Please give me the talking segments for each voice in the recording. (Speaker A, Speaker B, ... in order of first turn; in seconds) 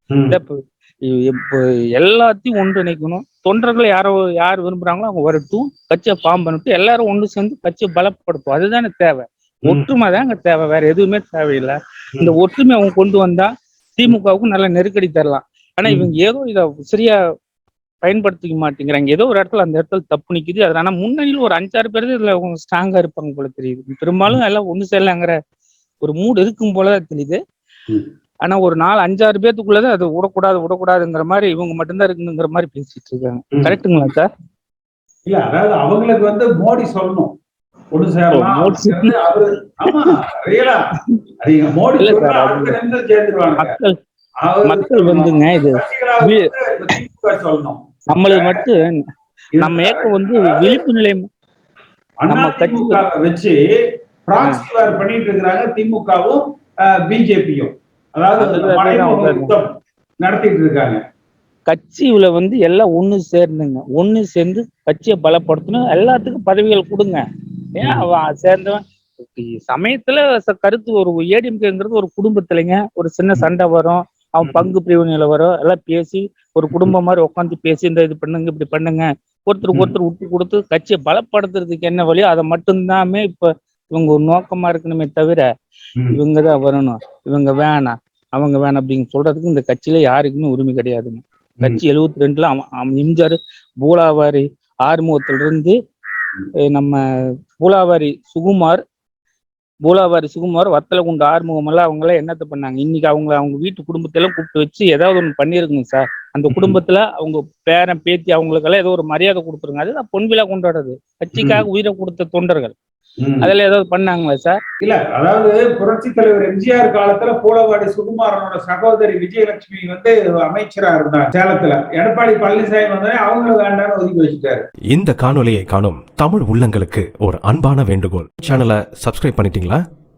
Speaker A: 0.1-0.4, 35.3-37.3, 37.9-43.8, 44.5-48.6, 49.6-50.8, 52.2-53.6, 54.3-61.0, 106.5-106.8, 111.4-111.7, 113.2-113.5, 114.8-124.6
Speaker B: 0.3-17.2, 18.0-25.4, 26.0-27.4, 28.4-34.3, 38.3-39.1, 39.9-40.2, 40.9-41.2, 42.0-42.8, 43.6-44.0, 44.6-46.5, 48.1-49.0, 49.6-51.3, 52.3-53.0, 58.4-59.5, 61.7-67.2, 67.8-85.5, 86.1-95.8, 96.7-97.0, 97.6-98.8, 99.8-112.7, 113.4-114.6
Speaker C: 124.9-129.8